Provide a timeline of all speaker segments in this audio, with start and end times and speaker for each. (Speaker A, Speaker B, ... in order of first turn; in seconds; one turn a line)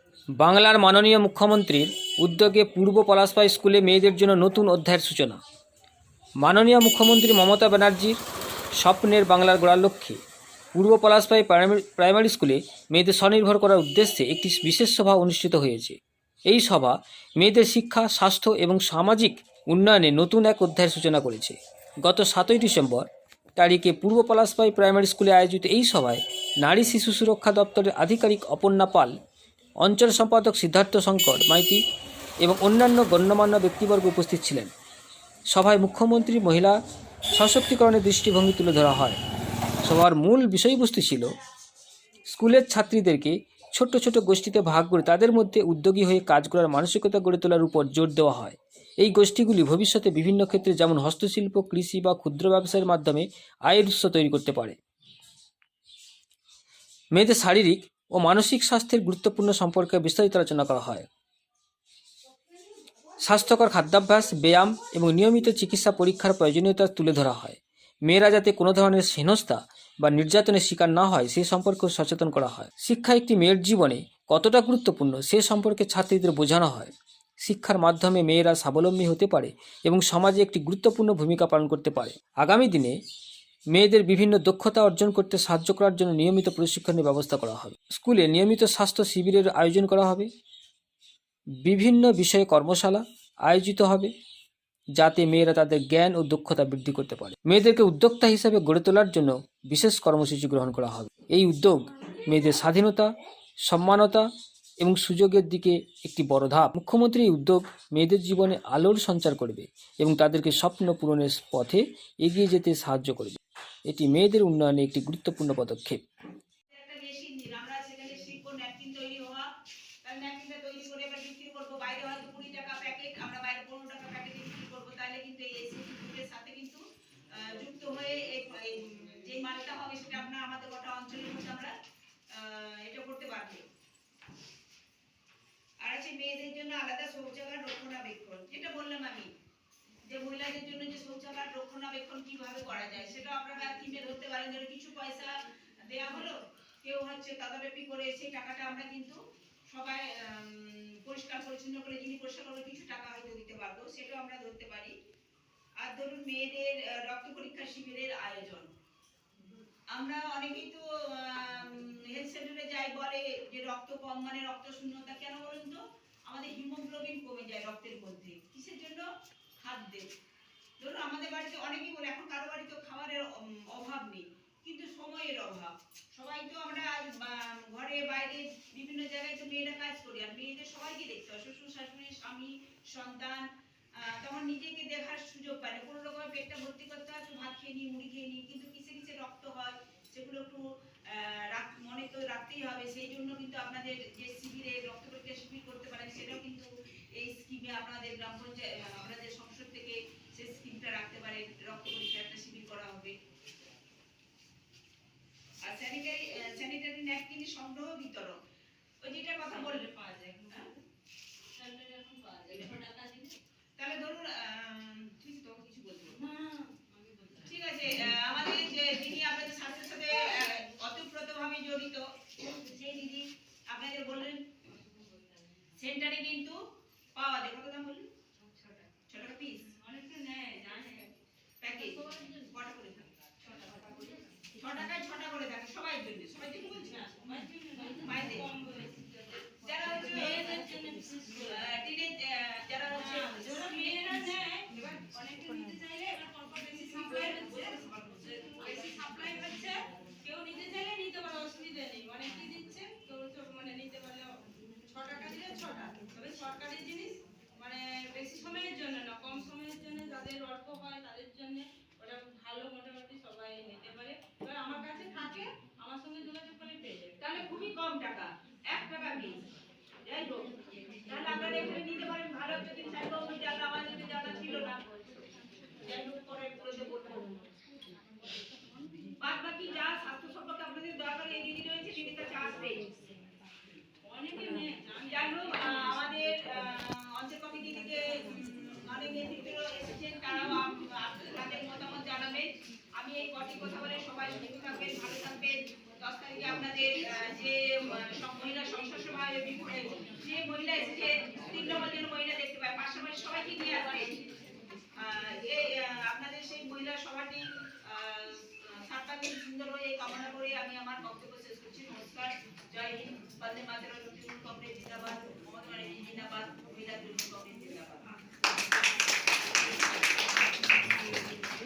Speaker A: 0.4-5.4
Speaker A: 6.4-8.2
Speaker A: 8.8-10.2
Speaker A: 10.7-29.1
Speaker A: 29.8-31.8
Speaker A: 32.4-34.7
Speaker A: 35.5-36.8
Speaker A: 37.3-39.2
Speaker A: 39.8-41.3
Speaker A: 42.3-54.8
Speaker A: 57.1-61.1
Speaker A: 63.2-76.9
Speaker A: 77.4-83.0
Speaker A: 83.7-90.3
Speaker A: 91.7-94.1
Speaker A: 95.0-103.1
Speaker A: 103.7-104.3
Speaker A: 104.8-116.0
Speaker B: 116.7-119.5
Speaker B: 120.0-126.8
Speaker B: 127.4-131.7
Speaker B: 132.3-133.7
Speaker B: 135.8-139.3
Speaker B: 140.0-145.3
Speaker B: 145.9-149.2
Speaker B: 149.7-154.9
Speaker B: 155.8-158.7
Speaker B: 159.9-169.1
Speaker B: 169.6-170.1
Speaker B: 170.8-183.4
Speaker B: 184.0-203.2
Speaker B: 205.6-208.3
Speaker B: 209.0-209.9
Speaker C: 209.6-210.8
Speaker C: 211.6-213.4
Speaker B: 213.8-216.2
Speaker C: 216.2-217.5
Speaker B: 217.4-224.7
Speaker B: 225.7-226.6
Speaker B: 227.2-228.1
Speaker C: 228.4-228.9
Speaker B: 229.1-229.7
Speaker C: 229.7-231.1
Speaker B: 231.6-236.9
Speaker C: 233.6-234.3
Speaker C: 236.6-241.8
Speaker B: 237.9-238.5
Speaker B: 239.6-240.6
Speaker B: 241.5-244.3
Speaker C: 243.0-247.8
Speaker B: 246.9-248.8
Speaker C: 248.4-267.2
Speaker B: 267.2-269.3
Speaker B: 270.1-270.5
Speaker B: 271.1-274.8
Speaker B: 275.8-277.3
Speaker B: 279.2-282.8
Speaker C: 284.0-285.9
Speaker B: 285.1-304.1
Speaker B: 305.0-318.1